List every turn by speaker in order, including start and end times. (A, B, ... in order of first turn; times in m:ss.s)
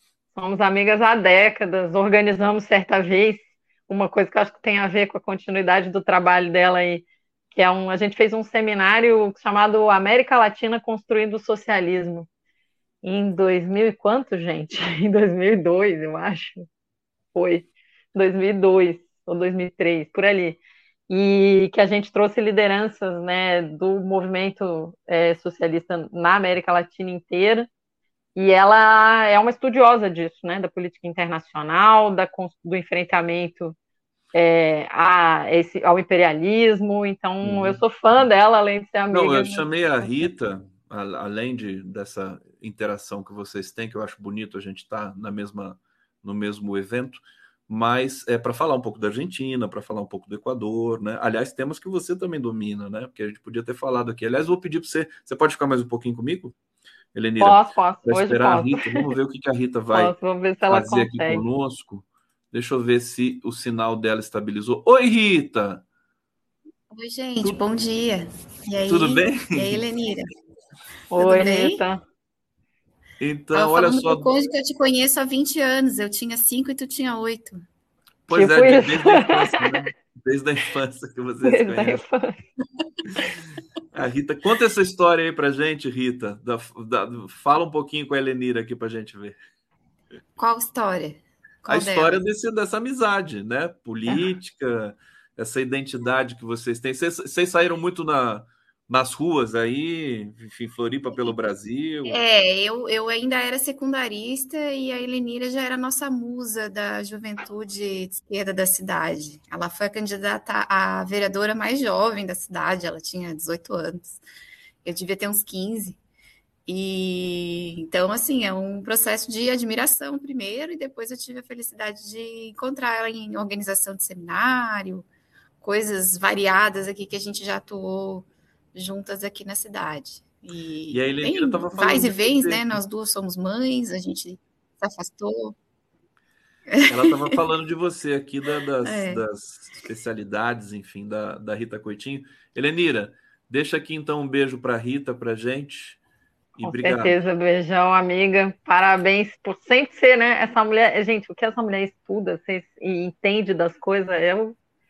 0:00.4-0:12.3 A
0:13.0-0:16.6 A
0:17.4-0:20.6 A
0:21.1-0:27.7 A
0:28.4-0:33.8 A
0:34.3-0:39.6 A
0:37.4-0:37.8 B
0:39.1-0:56.5 B
0:57.1-1:00.1 B
0:57.4-0:59.1 A
0:59.9-1:01.4 A
1:00.7-1:05.8 B
1:06.9-1:10.3 C
1:08.9-1:09.8 B
1:11.1-1:12.0 A
1:11.2-1:11.8 C
1:13.2-1:14.3 B
1:13.5-1:17.6 C
1:18.3-1:22.0 B
1:18.3-1:19.8 A
1:21.4-1:22.4 A
1:23.9-1:29.4 B
1:30.4-1:32.2 C
1:31.7-1:42.2 B
1:42.1-1:54.2 C
1:54.8-1:56.0 C
1:56.7-2:05.1 C
2:05.6-2:15.6 C
2:10.9-2:12.8 B
2:16.7-2:17.2 C
2:16.9-2:26.0 B
2:18.8-2:19.2 C
2:26.6-2:27.2 B
2:26.6-2:34.6 A